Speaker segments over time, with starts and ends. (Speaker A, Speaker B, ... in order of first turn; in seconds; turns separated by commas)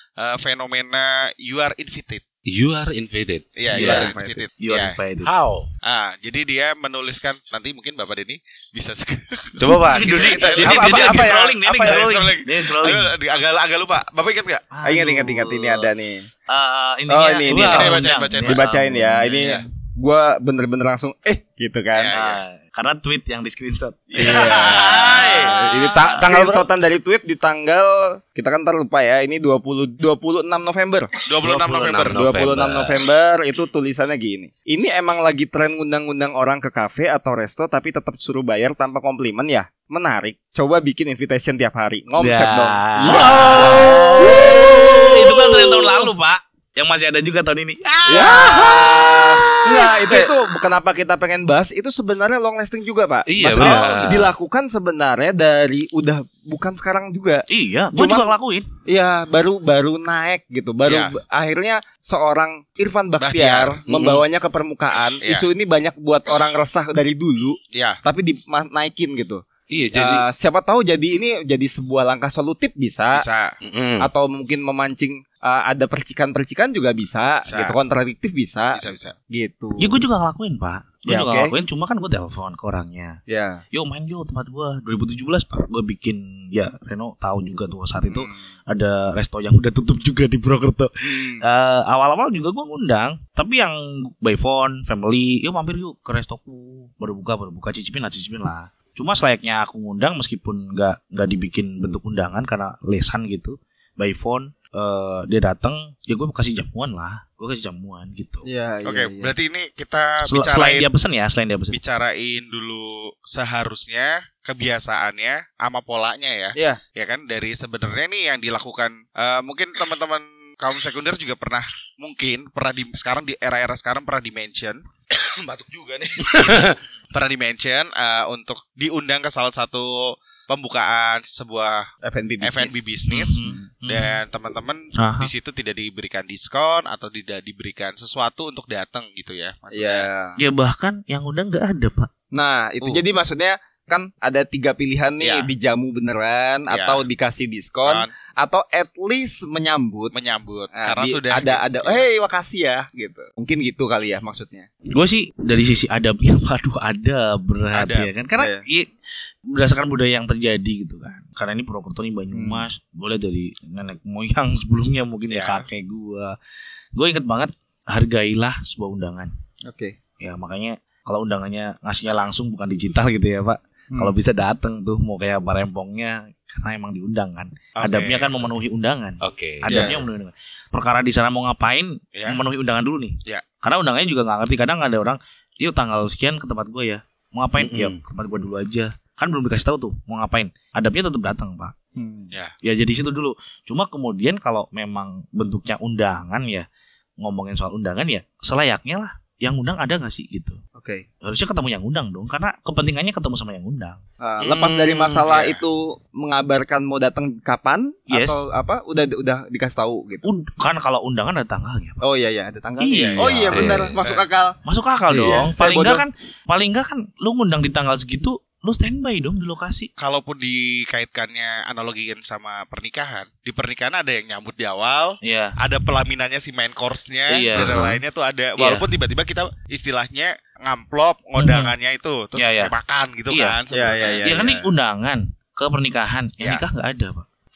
Speaker A: 0.2-2.2, Speaker B: 2.5-4.1, Speaker A: 3.6-5.0, Speaker C: 3.7-4.5, Speaker D: 3.7-5.3, Speaker B: 5.2-5.7, Speaker A: 5.8-14.7, Speaker B: 9.6-11.8, Speaker D: 9.9-13.1, Speaker C: 10.5-11.4, Speaker D: 14.7-15.9, Speaker C: 14.8-16.3, Speaker D: 16.5-19.6, Speaker C: 17.1-22.1, Speaker B: 17.5-17.9, Speaker A: 17.5-18.6, Speaker A: 21.9-22.4, Speaker D: 22.1-24.5, Speaker A: 24.1-25.8, Speaker C: 24.2-31.1, Speaker D: 25.4-26.1, Speaker B: 25.8-26.7, Speaker A: 31.2-32.3, Speaker B: 31.5-33.0, Speaker C: 32.0-46.0, Speaker D: 42.2-49.2, Speaker A: 43.4-44.3, Speaker B: 44.2-45.0, Speaker C: 48.1-58.3, Speaker B: 48.1-48.9, Speaker B: 53.2-54.3, Speaker D: 53.5-54.2, Speaker D: 57.5-58.7, Speaker C: 58.9-69.4, Speaker A: 60.8-61.1, Speaker A: 63.2-63.8, Speaker B: 63.9-64.2, Speaker A: 65.2-65.5, Speaker A: 67.7-68.0, Speaker B: 69.7-70.2, Speaker C: 69.9-73.2, Speaker A: 73.1-73.5, Speaker B: 73.6-74.1, Speaker C: 74.0-80.0, Speaker A: 77.5-77.8, Speaker A: 78.7-79.1, Speaker D: 79.8-83.2, Speaker C: 81.0-81.5, Speaker C: 83.3-83.6, Speaker D: 83.7-108.5, Speaker C: 88.0-88.3, Speaker C: 91.0-91.4, Speaker C: 108.4-109.3, Speaker A: 108.8-110.9, Speaker D: 110.2-111.8, Speaker A: 111.7-131.9, Speaker B: 126.3-126.8, Speaker C: 132.0-132.8, Speaker A: 132.4-140.1, Speaker D: 133.1-134.2, Speaker D: 134.9-135.3, Speaker C: 139.7-140.4, Speaker D: 140.4-142.1, Speaker C: 142.3-150.1, Speaker A: 145.2-145.5, Speaker A: 146.7-147.0, Speaker A: 147.8-148.1, Speaker A: 150.1-152.1, Speaker C: 150.7-154.7, Speaker D: 154.9-158.9, Speaker A: 157.7-158.1, Speaker C: 158.4-158.6, Speaker D: 159.5-166.3, Speaker C: 162.3-162.7, Speaker A: 165.3-165.6, Speaker D: 166.9-169.3, Speaker C: 169.6-170.0, Speaker D: 170.2-191.7, Speaker A: 177.8-178.4, Speaker B: 179.2-179.9, Speaker C: 179.7-180.0, Speaker A: 182.1-182.4, Speaker B: 187.6-188.0, Speaker C: 191.9-192.3, Speaker D: 192.6-196.7, Speaker D: 197.2-200.6, Speaker C: 200.8-201.0, Speaker D: 201.2-204.0, Speaker C: 204.2-210.2, Speaker A: 204.4-205.6, Speaker D: 208.1-208.4, Speaker D: 210.2-212.0, Speaker C: 212.0-214.6, Speaker D: 212.8-213.6, Speaker A: 212.9-214.2, Speaker B: 213.3-213.9, Speaker D: 214.6-219.9, Speaker B: 215.1-215.4, Speaker C: 215.2-216.0, Speaker A: 220.0-234.3, Speaker D: 225.2-225.6, Speaker D: 227.3-227.7, Speaker B: 227.5-228.0, Speaker D: 228.6-228.8, Speaker D: 231.4-231.7, Speaker D: 232.3-232.7, Speaker D: 233.3-233.6, Speaker C: 233.7-234.7, Speaker D: 234.2-237.2